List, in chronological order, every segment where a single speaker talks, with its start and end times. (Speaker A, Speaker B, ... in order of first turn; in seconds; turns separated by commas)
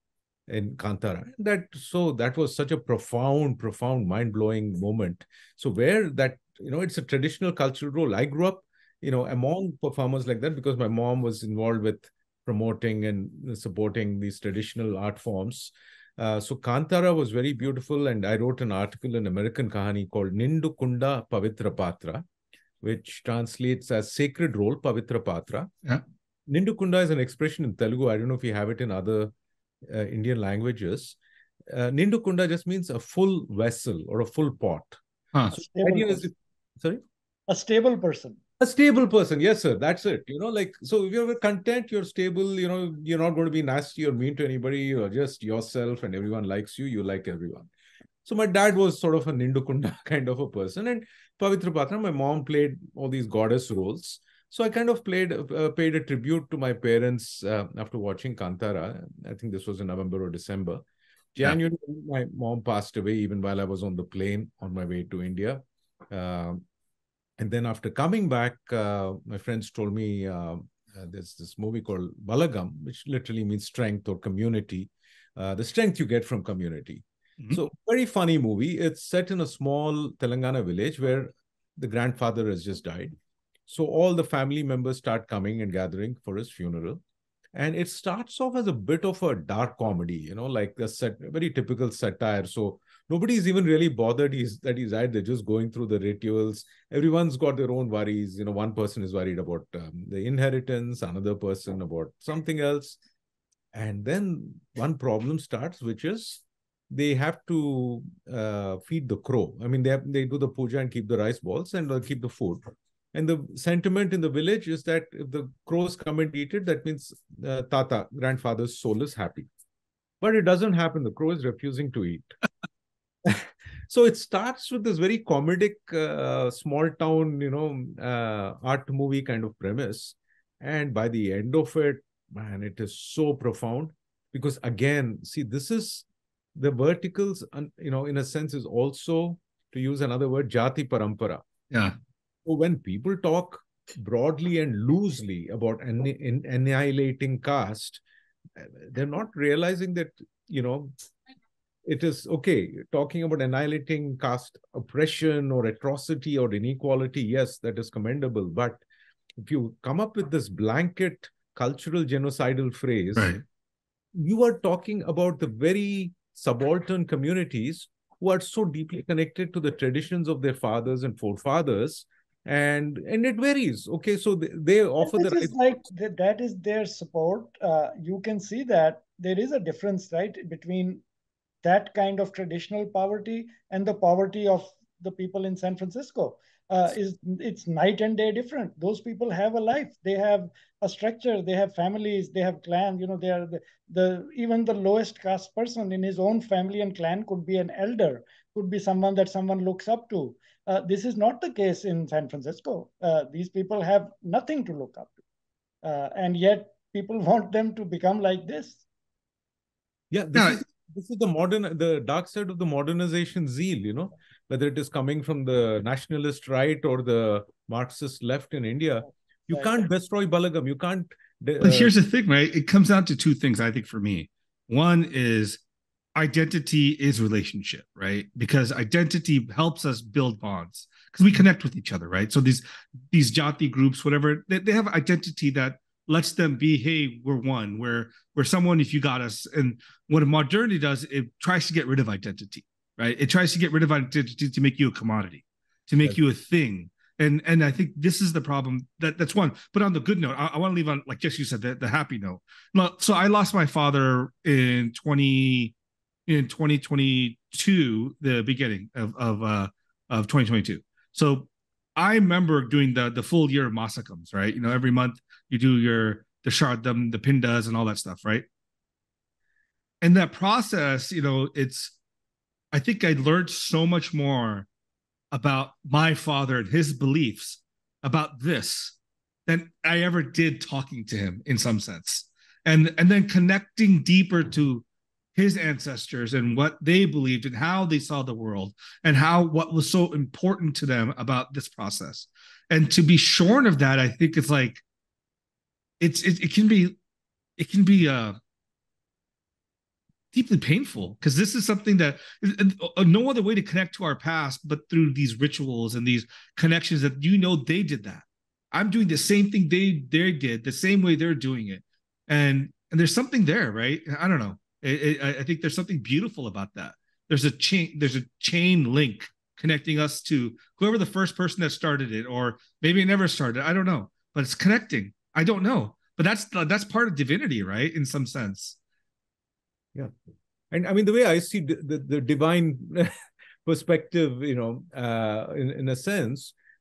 Speaker A: 0.5-22.2, Speaker A: 22.8-25.7, Speaker A: 26.5-29.3, Speaker A: 29.9-31.2, Speaker A: 31.7-35.0, Speaker B: 35.5-36.3, Speaker A: 35.5-37.0, Speaker B: 37.5-38.4, Speaker A: 38.6-47.7, Speaker A: 48.2-60.8, Speaker A: 61.4-66.6, Speaker A: 67.4-83.2, Speaker A: 83.7-87.0, Speaker A: 87.5-103.0, Speaker A: 103.7-119.5, Speaker A: 120.2-122.3, Speaker A: 123.2-141.4, Speaker C: 141.7-141.9, Speaker A: 142.4-148.0, Speaker A: 148.6-150.9, Speaker A: 151.8-158.8, Speaker A: 159.4-163.3, Speaker C: 163.2-163.4, Speaker A: 164.1-175.7, Speaker B: 175.0-181.0, Speaker B: 181.6-205.2, Speaker B: 205.8-208.8, Speaker A: 210.1-221.9, Speaker C: 210.3-210.6, Speaker B: 219.5-219.8, Speaker C: 221.6-225.6, Speaker C: 226.1-255.7, Speaker C: 256.2-268.5, Speaker C: 270.0-272.0, Speaker C: 272.7-274.7, Speaker C: 275.3-294.8, Speaker C: 296.0-296.9, Speaker C: 297.6-298.4, Speaker C: 300.3-328.8, Speaker A: 330.7-333.1, Speaker A: 333.6-336.5